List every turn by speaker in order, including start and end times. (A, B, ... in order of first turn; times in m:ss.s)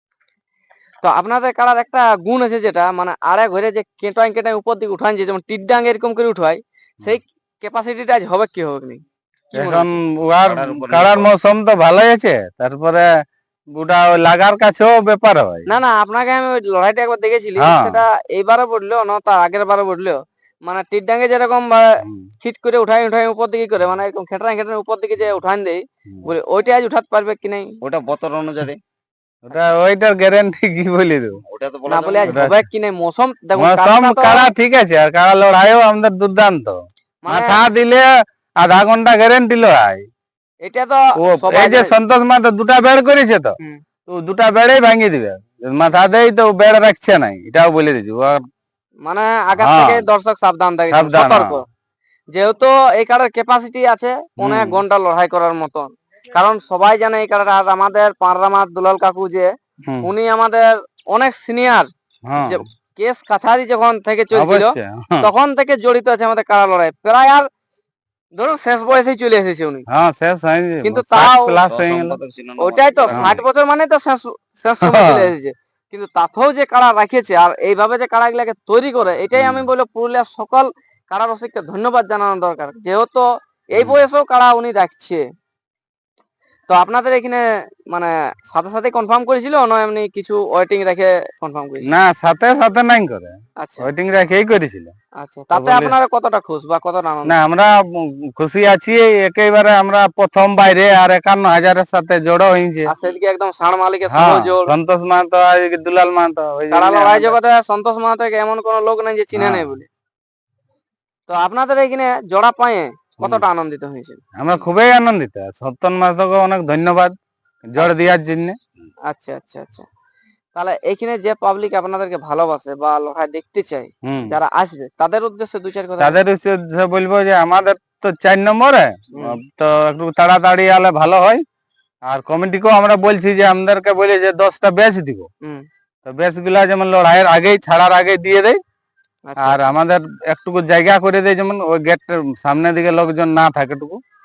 0:01.0-0:09.0 A
0:09.5-0:09.9 A
0:09.6-0:13.1 B
0:10.4-0:11.3 C
0:13.7-0:15.7 B
0:15.7-0:27.7 A
0:17.6-0:18.0 B
0:22.0-0:22.3 B
0:27.8-0:28.8 C
0:29.4-0:31.4 B
0:31.5-0:32.4 C
0:31.9-0:34.5 A
0:32.2-0:32.6 B
0:33.6-0:38.1 B
0:37.2-0:37.6 A
0:38.6-0:40.0 B
0:40.6-0:41.9 A
0:41.2-0:43.5 B
0:44.1-0:48.4 B
0:49.0-0:51.6 A
0:49.5-0:50.0 B
0:50.9-0:51.6 B
0:52.3-0:59.5 A
0:54.4-0:54.8 B
1:00.0-1:07.5 A
1:02.3-1:02.6 B
1:04.3-1:05.3 B
1:08.4-1:09.8 A
1:09.9-1:12.2 B
1:10.8-1:11.6 A
1:11.7-1:13.3 C
1:12.6-1:25.2 A
1:13.1-1:13.4 B
1:14.8-1:15.3 B
1:19.4-1:19.7 B
1:23.8-1:24.0 B
1:26.7-1:31.9 A
1:31.9-1:34.9 B
1:33.6-1:33.9 A
1:35.2-1:37.4 A
1:35.5-1:35.9 B
1:37.3-1:37.7 B
1:38.4-1:42.9 B
1:42.9-1:44.7 A
1:44.1-1:47.4 B
1:46.7-1:49.9 A
1:49.3-1:49.7 B
1:51.3-1:54.2 A
1:54.4-1:57.1 B
1:57.7-1:58.6 B
1:59.1-1:59.8 A
2:00.6-2:06.2 A
2:04.0-2:04.3 B
2:06.0-2:11.4 B
2:12.1-2:15.3 B
2:16.0-2:18.6 B
2:19.3-2:19.6 A
2:19.4-2:24.0 B